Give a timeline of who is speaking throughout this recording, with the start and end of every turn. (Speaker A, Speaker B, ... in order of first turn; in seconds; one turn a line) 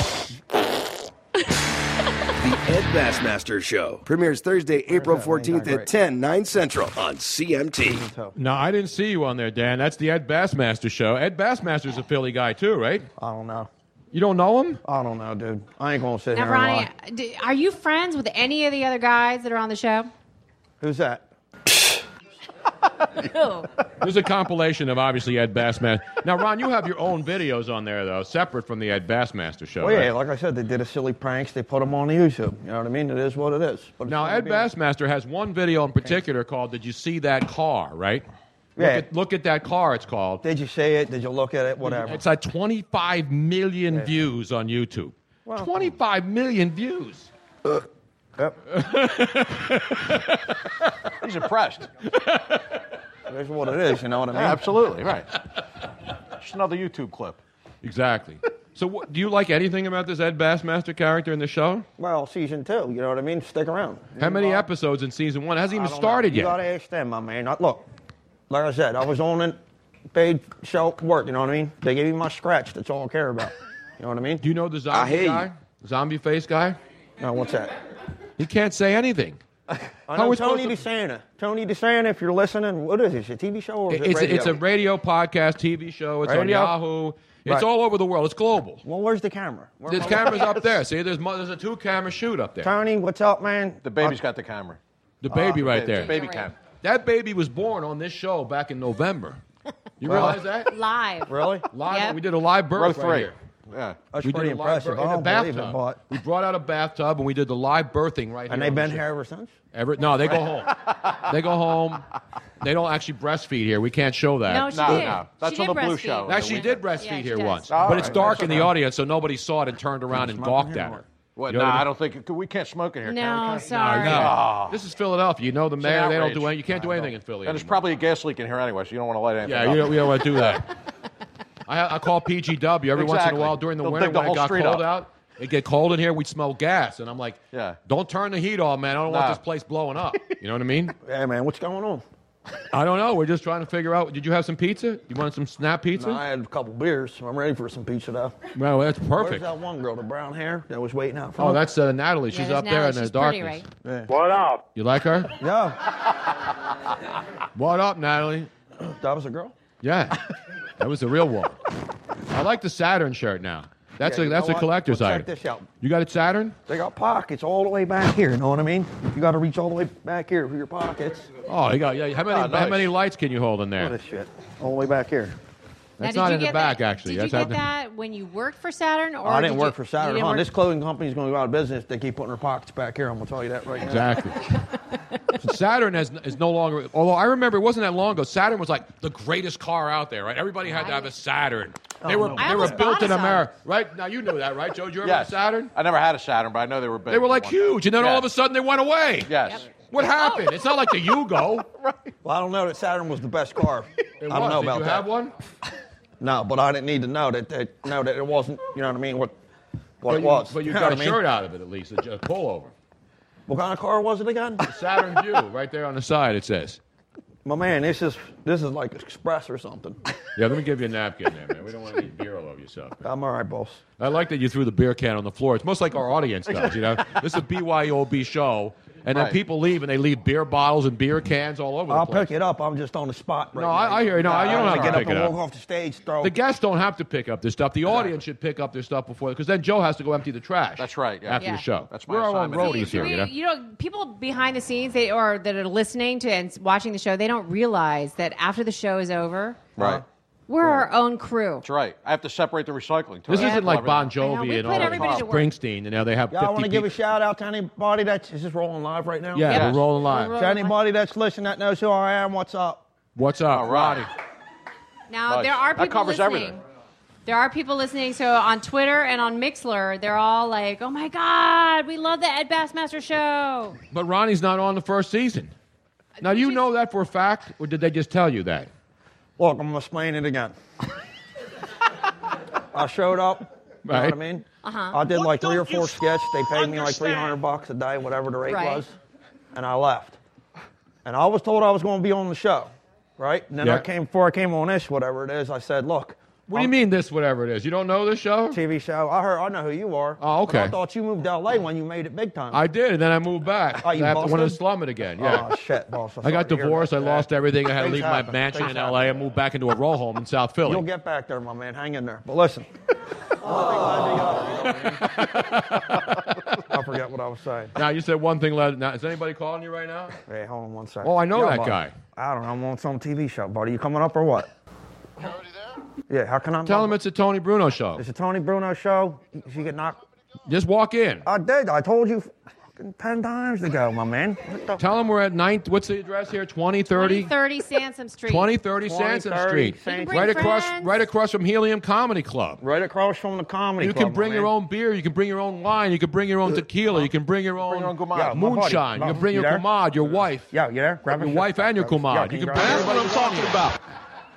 Speaker A: 2.5-8.0
Speaker B: 4.9-5.9
Speaker B: 7.8-8.3
Speaker C: 8.4-13.1
Speaker B: 13.2-13.7
Speaker C: 14.1-14.8
Speaker B: 14.8-16.9
Speaker D: 16.3-20.1
Speaker B: 20.8-21.3
Speaker D: 23.2-23.7
Speaker C: 24.0-30.1
Speaker B: 29.8-34.7
Speaker C: 34.1-38.2
Speaker B: 38.8-39.1
Speaker C: 38.8-40.4
Speaker B: 40.4-42.2
Speaker C: 41.8-47.3
Speaker B: 45.5-45.8
Speaker C: 48.7-50.5
Speaker E: 51.2-51.9
Speaker C: 52.2-52.6
Speaker B: 53.3-54.8
Speaker E: 54.3-55.3
Speaker E: 56.4-57.4
Speaker C: 57.8-61.9
Speaker B: 62.0-64.7
Speaker C: 64.2-66.6
Speaker B: 65.8-67.8
Speaker B: 68.5-69.6
Speaker B: 70.1-74.4
Speaker C: 74.4-76.8
Speaker B: 77.2-77.7
Speaker C: 78.4-79.4
Speaker B: 80.1-84.6
Speaker C: 80.2-80.8
Speaker C: 83.9-88.8
Speaker B: 86.2-86.8
Speaker B: 88.8-90.7
Speaker C: 89.9-92.7
Speaker B: 92.6-94.2
Speaker E: 93.8-94.8
Speaker C: 95.2-96.2
Speaker B: 95.3-95.6
Speaker E: 95.4-96.6
Speaker D: 96.0-96.5
Speaker C: 96.8-99.4
Speaker C: 100.0-100.7
Speaker B: 100.1-100.4
Speaker D: 100.7-102.2
Speaker B: 101.3-101.7
Speaker C: 101.7-103.3
Speaker E: 102.8-104.0
Speaker B: 104.1-106.0
Speaker C: 104.2-109.0
Speaker B: 108.5-109.5
Speaker C: 109.7-112.1
Speaker E: 110.3-111.2
Speaker C: 112.6-115.2
Speaker D: 114.5-117.9
Speaker E: 114.7-116.8
Speaker C: 116.3-121.9
Speaker E: 117.7-118.7
Speaker B: 117.9-118.7
Speaker B: 120.1-121.0
Speaker E: 121.4-124.8
Speaker D: 123.0-124.3
Speaker C: 123.7-127.8
Speaker E: 125.8-130.6
Speaker C: 129.4-130.7
Speaker C: 131.7-140.9
Speaker E: 132.9-134.9
Speaker E: 137.5-137.8
Speaker E: 139.1-139.4
Speaker B: 141.0-142.0
Speaker C: 142.7-146.2
Speaker B: 146.0-148.4
Speaker C: 148.6-149.5
Speaker B: 149.2-151.6
Speaker C: 151.4-153.6
Speaker D: 152.3-153.7
Speaker B: 153.8-154.1
Speaker C: 154.8-155.3
Speaker B: 155.4-155.8
Speaker C: 157.6-158.5
Speaker B: 158.8-159.5
Speaker C: 159.8-160.2
Speaker C: 160.8-161.6
Speaker C: 162.3-165.3
Speaker B: 164.0-165.7
Speaker C: 165.8-166.6
Speaker B: 166.7-171.3
Speaker C: 171.5-173.9
Speaker E: 172.3-172.9
Speaker B: 173.8-175.3
Speaker C: 176.0-177.6
Speaker D: 176.0-180.5
Speaker B: 179.2-184.2
Speaker C: 183.8-184.5
Speaker C: 185.4-195.7
Speaker D: 190.7-191.1
Speaker B: 192.1-192.8
Speaker D: 192.3-193.4
Speaker E: 195.0-198.3
Speaker C: 197.1-201.7
Speaker E: 199.3-199.6
Speaker D: 199.4-200.4
Speaker B: 202.2-205.1
Speaker C: 204.2-205.3
Speaker B: 206.2-209.3
Speaker B: 210.0-211.2
Speaker C: 210.1-212.7
Speaker B: 213.5-214.7
Speaker C: 214.6-216.8
Speaker B: 217.4-220.0
Speaker C: 220.4-223.0
Speaker B: 223.0-223.8
Speaker C: 224.0-232.3
Speaker E: 226.5-226.8
Speaker E: 229.1-229.4
Speaker B: 231.9-236.3
Speaker C: 233.6-235.3
Speaker E: 234.4-235.0
Speaker C: 236.2-243.3
Speaker E: 240.8-243.2
Speaker D: 241.4-241.6
Speaker D: 242.6-249.6
Speaker E: 249.8-250.0
Speaker B: 249.8-250.0
Speaker D: 250.5-251.7
Speaker E: 251.6-255.3
Speaker C: 253.3-256.9
Speaker D: 253.3-255.5
Speaker B: 256.3-259.7
Speaker C: 259.4-260.4
Speaker E: 259.5-259.9
Speaker D: 259.5-260.8
Speaker B: 260.4-262.9
Speaker C: 263.2-264.1
Speaker E: 263.5-264.1
Speaker D: 265.1-266.6
Speaker E: 265.3-266.6
Speaker D: 267.3-273.8
Speaker C: 273.9-275.5
Speaker D: 276.2-276.6
Speaker C: 276.2-278.7
Speaker B: 279.4-280.5
Speaker B: 282.7-288.9
Speaker C: 283.9-284.2
Speaker D: 284.6-287.3
Speaker D: 288.5-288.8
Speaker B: 289.5-290.2
Speaker B: 291.1-296.7
Speaker C: 296.5-298.6
Speaker B: 298.5-302.6
Speaker C: 300.2-300.8
Speaker C: 302.5-305.5
Speaker B: 303.8-304.6
Speaker B: 305.2-309.2
Speaker C: 306.2-310.9
Speaker B: 310.6-312.7
Speaker B: 313.4-315.2
Speaker C: 315.0-316.0
Speaker B: 316.7-317.7
Speaker C: 317.8-320.2
Speaker B: 320.3-324.5
Speaker C: 321.0-321.9
Speaker B: 326.1-327.0
Speaker C: 326.6-328.0
Speaker B: 328.0-330.0
Speaker C: 330.5-331.3
Speaker B: 331.2-334.8
Speaker C: 334.8-337.3
Speaker D: 336.9-338.5
Speaker C: 338.3-342.6
Speaker B: 338.9-340.6
Speaker D: 339.9-340.9
Speaker B: 342.6-344.5
Speaker C: 343.8-350.5
Speaker E: 347.6-348.4
Speaker B: 348.1-349.6
Speaker B: 350.5-353.2
Speaker C: 351.1-353.8